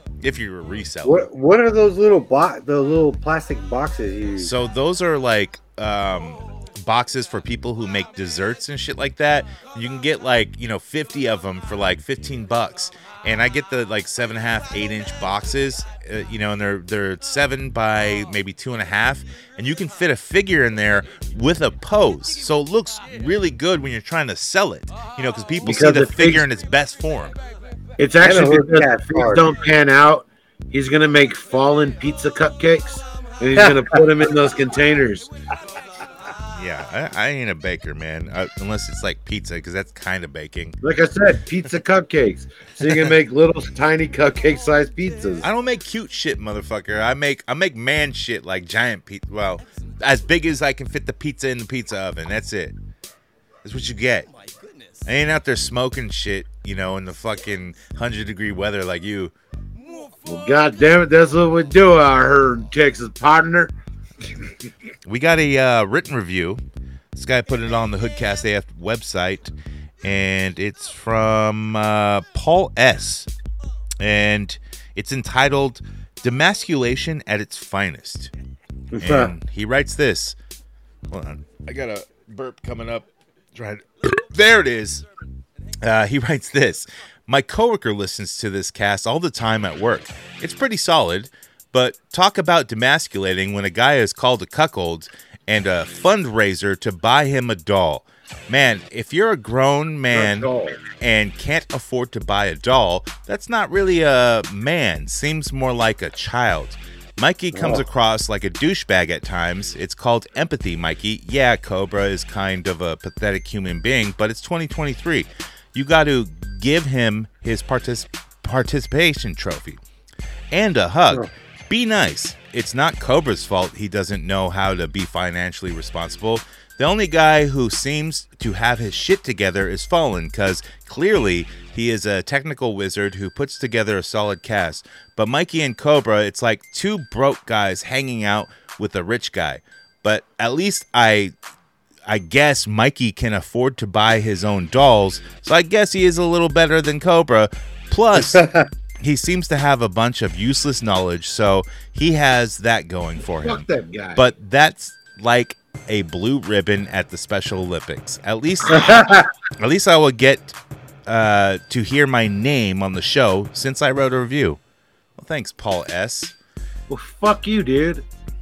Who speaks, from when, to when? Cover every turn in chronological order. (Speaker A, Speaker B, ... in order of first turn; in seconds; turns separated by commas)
Speaker A: 0.2-1.3, Speaker B: 1.0-4.5, Speaker A: 4.4-27.4, Speaker C: 25.6-26.4, Speaker C: 28.0-35.3, Speaker B: 28.2-29.5, Speaker B: 33.6-33.9, Speaker A: 36.5-40.8, Speaker C: 40.8-45.5, Speaker A: 45.4-52.8, Speaker A: 53.6-54.3, Speaker A: 55.0-59.3, Speaker C: 60.3-63.7, Speaker A: 65.1-66.6, Speaker A: 67.1-73.3, Speaker A: 74.0-78.3, Speaker B: 78.9-79.3, Speaker A: 79.0-80.4, Speaker A: 81.1-85.0, Speaker A: 85.8-119.8, Speaker C: 100.1-100.8, Speaker B: 107.5-107.8, Speaker A: 120.5-141.3, Speaker A: 142.1-148.4, Speaker B: 148.2-148.7, Speaker A: 149.0-159.1, Speaker C: 153.3-154.2, Speaker C: 158.7-159.1, Speaker A: 159.6-160.6, Speaker A: 161.1-164.6, Speaker A: 165.2-166.3, Speaker C: 166.9-168.1